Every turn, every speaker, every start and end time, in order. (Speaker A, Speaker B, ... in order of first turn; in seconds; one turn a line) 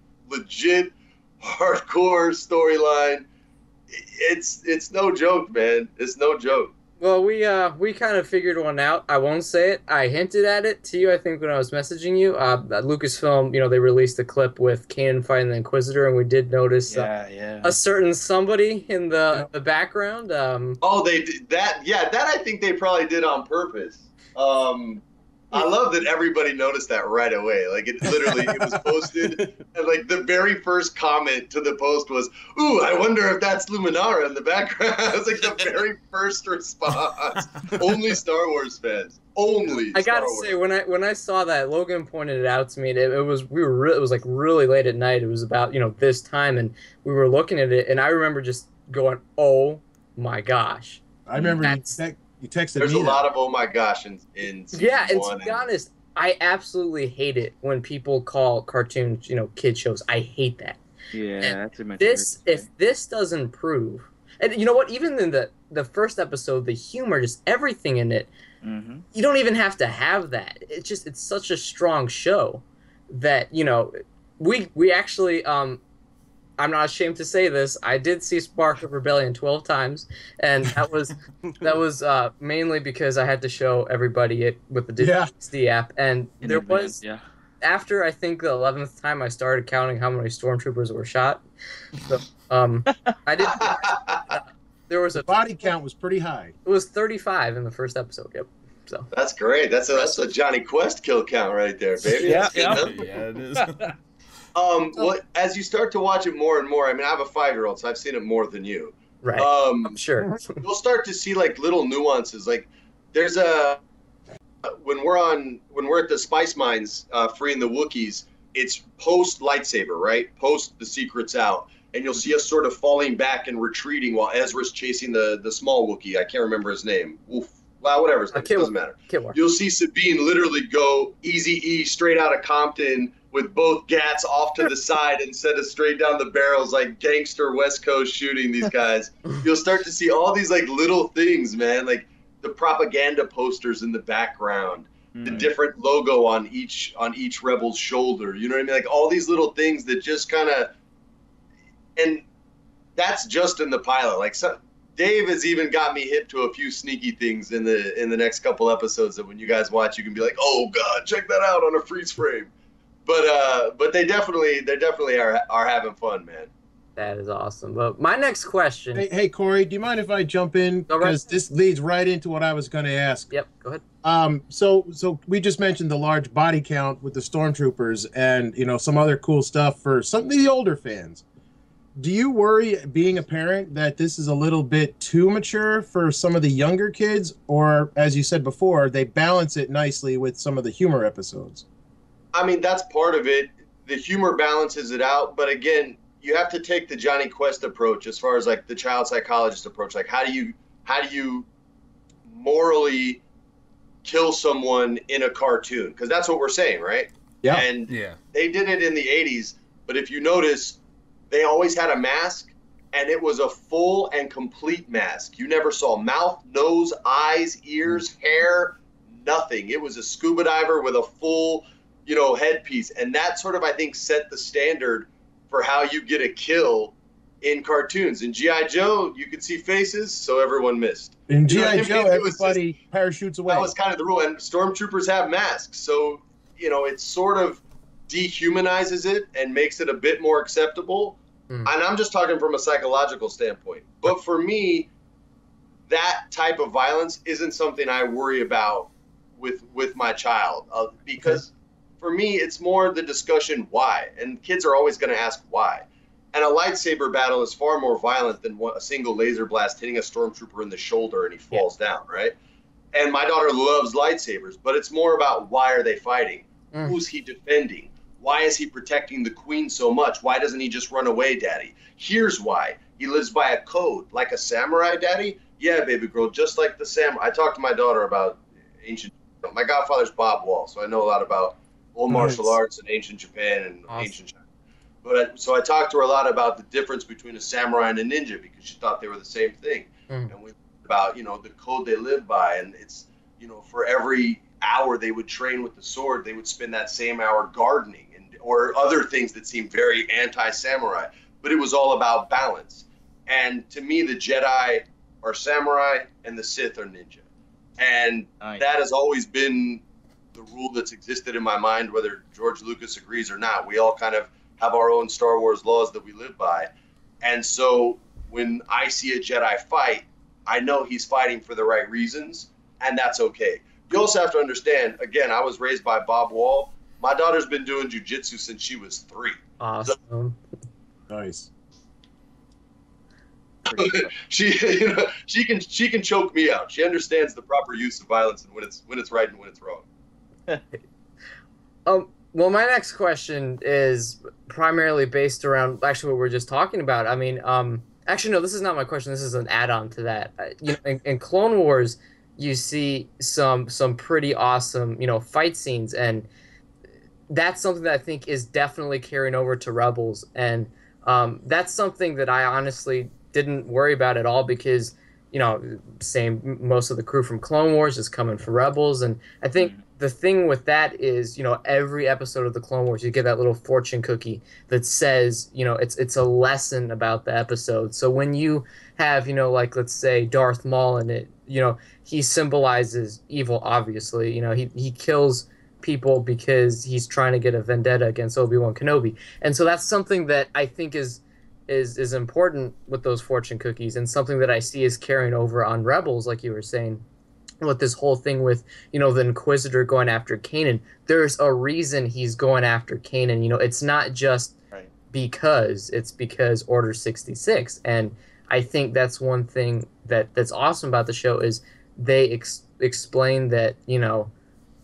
Speaker A: 0.3-3.2
Speaker A: 3.9-6.7
Speaker B: 7.0-17.1
Speaker C: 16.9-17.7
Speaker B: 17.6-20.8
Speaker A: 20.8-40.5
Speaker B: 39.9-51.0
Speaker D: 51.2-53.2
Speaker B: 51.6-52.0
Speaker A: 52.8-55.6
Speaker B: 54.7-60.8
Speaker C: 61.1-62.6
Speaker B: 61.4-68.3
Speaker C: 68.6-69.0
Speaker B: 69.1-75.8
Speaker B: 76.6-87.0
Speaker D: 85.0-85.3
Speaker C: 86.4-87.2
Speaker B: 87.6-91.4
Speaker B: 92.0-95.4
Speaker A: 93.4-94.4
Speaker D: 95.2-96.5
Speaker B: 96.6-99.1
Speaker A: 99.1-103.0
Speaker C: 102.2-102.9
Speaker E: 102.4-103.9
Speaker C: 103.5-103.9
Speaker A: 104.5-110.0
Speaker B: 109.2-110.6
Speaker A: 110.6-113.8
Speaker A: 114.6-150.7
Speaker B: 128.3-129.4
Speaker C: 145.1-145.5
Speaker A: 151.9-152.2
Speaker A: 152.9-162.5
Speaker A: 163.1-166.5
Speaker B: 166.9-169.1
Speaker D: 168.9-173.3
Speaker B: 170.9-171.2
Speaker B: 173.3-173.8
Speaker D: 174.0-181.2
Speaker D: 182.0-191.6
Speaker A: 192.3-201.5
Speaker A: 202.2-203.2
Speaker A: 204.0-210.8
Speaker E: 207.9-208.2
Speaker A: 211.3-232.6
Speaker D: 231.3-233.7
Speaker A: 233.5-244.9
Speaker A: 245.9-262.3
Speaker A: 262.9-284.4
Speaker D: 282.1-282.4
Speaker A: 285.0-307.2
Speaker A: 307.8-309.8
Speaker A: 310.3-316.7
Speaker A: 317.2-330.0
Speaker B: 329.6-330.4
Speaker D: 331.1-331.5
Speaker C: 333.6-334.1
Speaker A: 333.7-339.8
Speaker B: 341.9-356.3
Speaker B: 357.3-397.0
Speaker B: 397.6-404.6
Speaker B: 405.1-414.3